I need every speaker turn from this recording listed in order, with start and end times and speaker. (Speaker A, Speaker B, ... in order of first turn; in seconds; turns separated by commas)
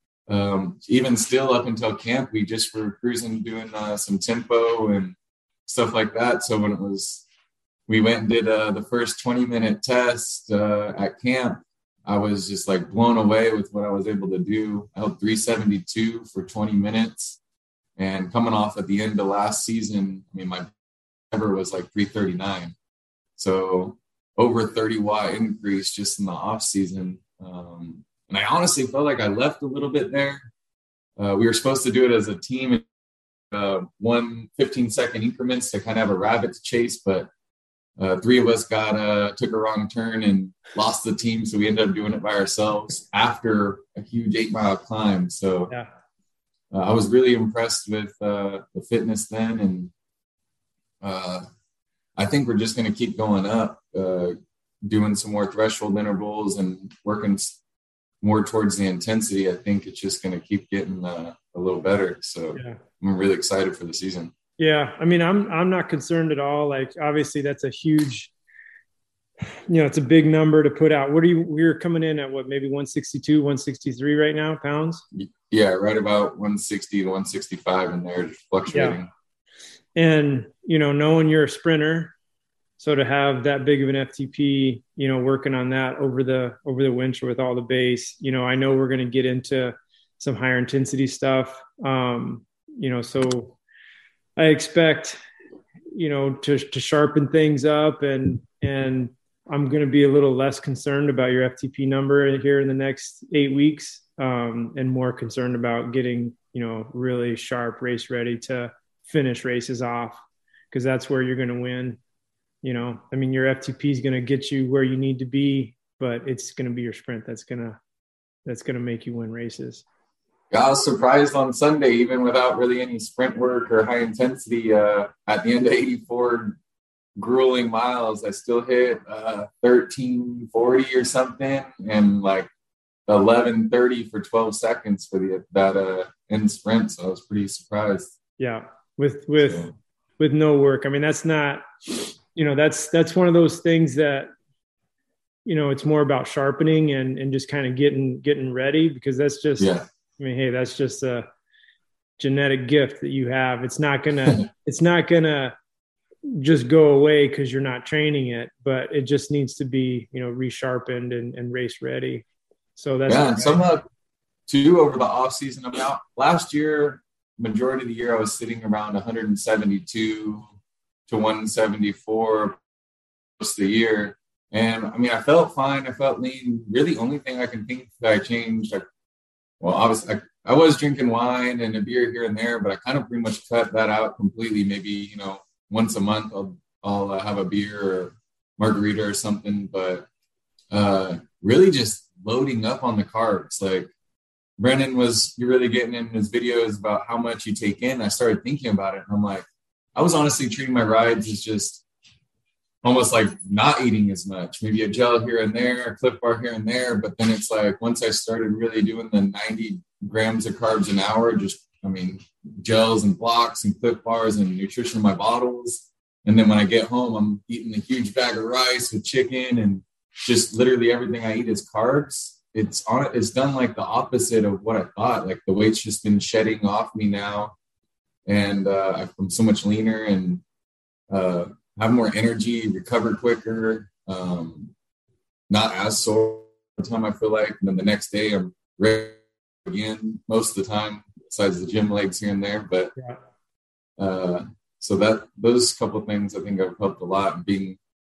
Speaker A: 0.3-7.2, Speaker A: 7.9-17.4, Speaker A: 18.0-20.7, Speaker A: 21.3-22.7, Speaker A: 23.4-30.5, Speaker A: 31.2-32.8, Speaker A: 33.5-37.3, Speaker A: 38.0-45.7, Speaker A: 46.7-49.9, Speaker A: 51.0-51.4, Speaker A: 52.2-54.3, Speaker A: 54.8-57.6, Speaker A: 58.2-64.3, Speaker B: 64.6-68.3, Speaker B: 69.7-75.0, Speaker A: 75.1-79.1, Speaker B: 78.7-79.0, Speaker B: 80.0-82.1, Speaker B: 82.8-93.5, Speaker B: 94.4-95.2, Speaker B: 95.9-112.0, Speaker B: 112.6-117.8, Speaker B: 118.5-119.8, Speaker A: 120.5-126.6, Speaker A: 127.2-132.5, Speaker A: 133.1-138.1, Speaker B: 138.4-141.6, Speaker A: 139.4-139.7, Speaker B: 142.3-144.3, Speaker B: 145.4-151.2, Speaker A: 149.6-149.8, Speaker B: 152.2-155.5, Speaker B: 156.2-162.2, Speaker B: 162.8-163.6, Speaker A: 163.1-163.8, Speaker A: 164.5-170.4, Speaker A: 171.1-172.6, Speaker A: 173.4-178.8, Speaker A: 179.6-190.1, Speaker A: 190.7-193.9, Speaker A: 194.6-201.8, Speaker A: 202.8-227.5, Speaker A: 228.3-230.4, Speaker A: 231.1-234.7, Speaker A: 235.5-242.9, Speaker A: 244.0-247.8